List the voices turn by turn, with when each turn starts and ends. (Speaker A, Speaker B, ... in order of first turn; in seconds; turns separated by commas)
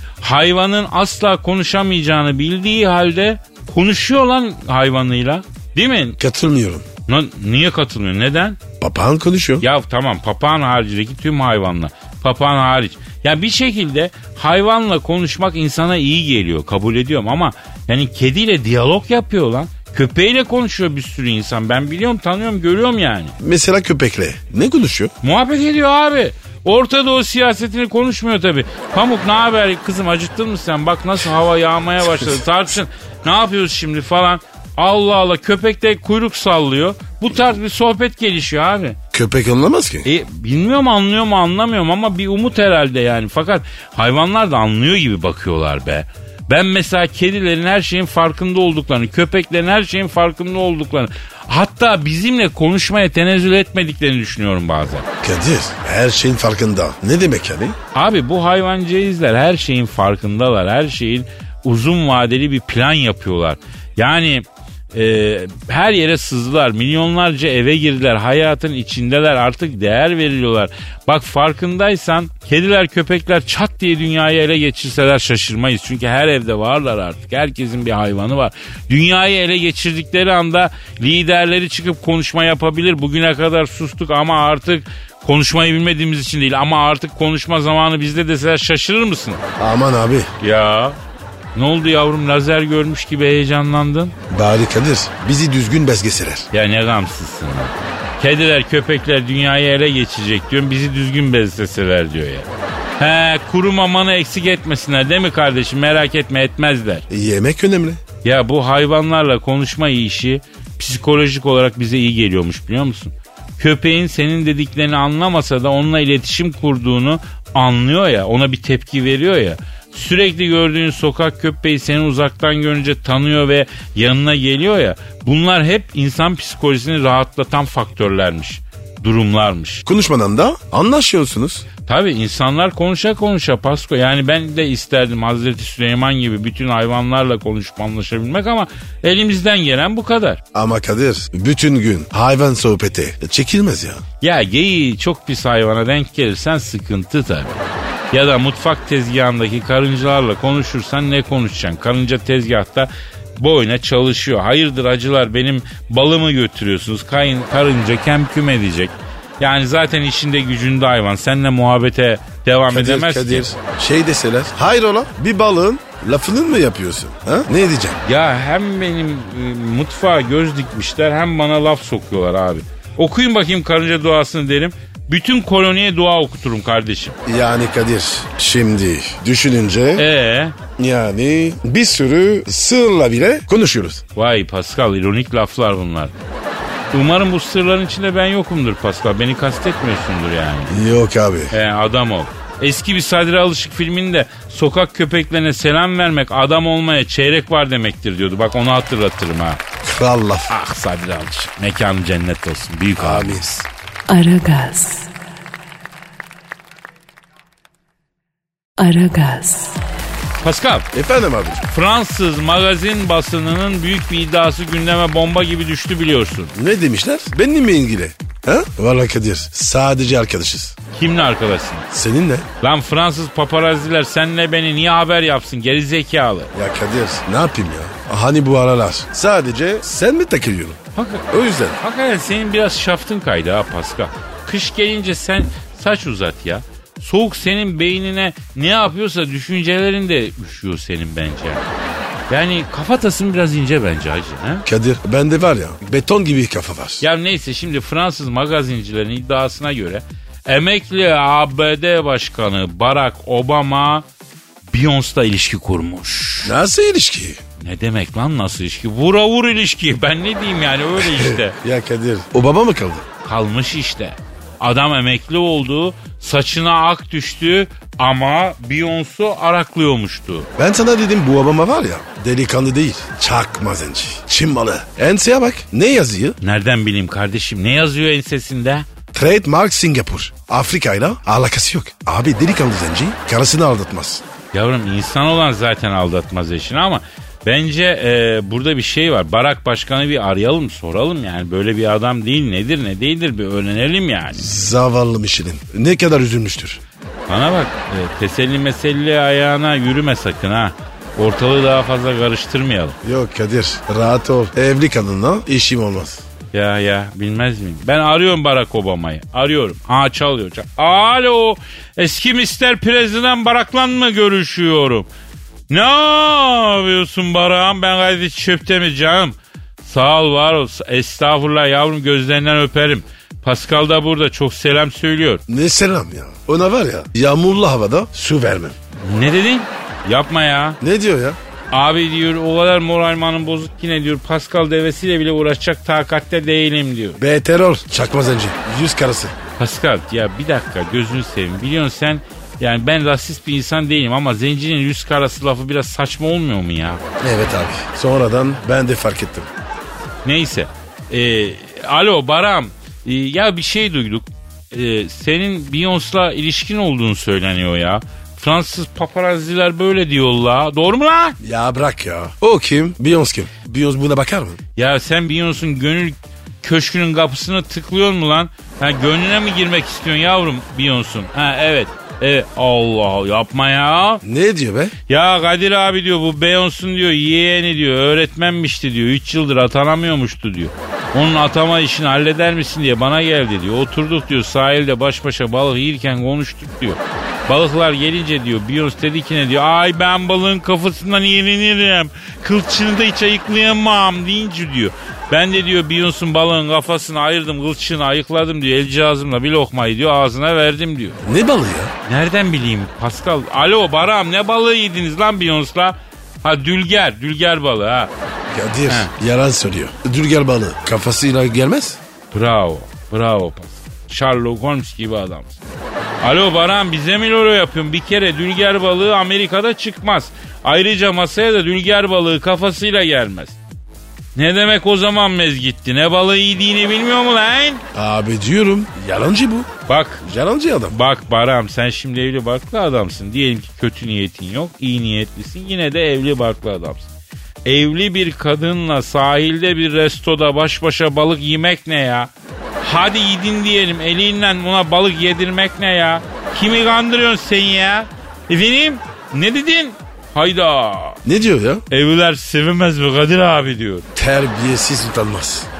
Speaker A: 0.2-6.2, Speaker B: 6.2-6.8, Speaker A: 7.1-8.6, Speaker B: 8.8-9.6, Speaker A: 9.6-23.3, Speaker B: 23.4-25.1, Speaker A: 25.2-39.0, Speaker B: 39.1-40.1, Speaker A: 40.0-55.0, Speaker B: 55.2-57.8, Speaker A: 57.9-89.4, Speaker B: 89.6-90.3, Speaker A: 90.4-91.0, Speaker A: 91.5-94.1, Speaker B: 94.3-96.5, Speaker A: 96.5-102.5, Speaker A: 103.0-107.0, Speaker B: 107.1-108.0, Speaker A: 108.2-129.8, Speaker B: 129.8-131.6, Speaker A: 131.8-140.4, Speaker B: 140.5-144.0, Speaker A: 144.2-163.4, Speaker B: 162.7-168.0, Speaker A: 168.0-177.2, Speaker B: 177.2-180.0, Speaker A: 179.9-180.5, Speaker B: 180.8-184.0, Speaker A: 184.2-186.1, Speaker A: 186.9-190.8, Speaker B: 190.7-191.5, Speaker A: 191.5-199.6, Speaker B: 199.8-200.5, Speaker A: 200.5-203.4, Speaker B: 203.0-203.7, Speaker C: 204.1-205.1, Speaker C: 208.8-209.8, Speaker A: 210.4-210.9, Speaker B: 210.9-211.7, Speaker A: 211.7-216.5, Speaker B: 216.5-220.7, Speaker A: 220.9-221.9, Speaker B: 221.9-222.4, Speaker A: 222.6-226.5, Speaker B: 226.5-230.8, Speaker A: 230.9-231.3, Speaker B: 231.3-231.8, Speaker A: 231.8-241.7, Speaker A: 242.3-244.7, Speaker B: 244.7-247.0, Speaker A: 247.0-254.1, Speaker A: 254.7-256.5, Speaker B: 256.4-257.4, Speaker A: 257.6-261.6, Speaker B: 261.0-263.1, Speaker A: 263.2-270.5, Speaker B: 270.6-276.4, Speaker A: 276.4-278.9, Speaker B: 279.1-284.2, Speaker A: 284.5-294.4, Speaker B: 294.3-296.8, Speaker A: 297.3-303.0, Speaker B: 303.0-306.2, Speaker A: 306.5-315.1, Speaker A: 315.7-325.4, Speaker B: 325.5-328.7, Speaker A: 329.0-330.8, Speaker B: 330.8-331.4, Speaker A: 331.7-337.2, Speaker B: 337.2-339.4, Speaker A: 339.6-347.0, Speaker B: 347.2-349.5, Speaker A: 350.2-361.4, Speaker B: 361.4-364.6, Speaker A: 364.8-374.2, Speaker B: 374.2-374.9, Speaker A: 375.1-401.2, Speaker B: 401.2-401.9, Speaker A: 402.1-408.1, Speaker B: 408.5-412.0, Speaker A: 412.3-415.6, Speaker A: 416.2-423.6, Speaker A: 424.3-427.8, Speaker B: 427.9-429.7, Speaker A: 429.9-430.2, Speaker B: 430.2-431.0, Speaker A: 430.9-437.1, Speaker A: 437.6-451.2, Speaker B: 451.2-451.8, Speaker A: 451.9-454.1, Speaker B: 454.1-455.7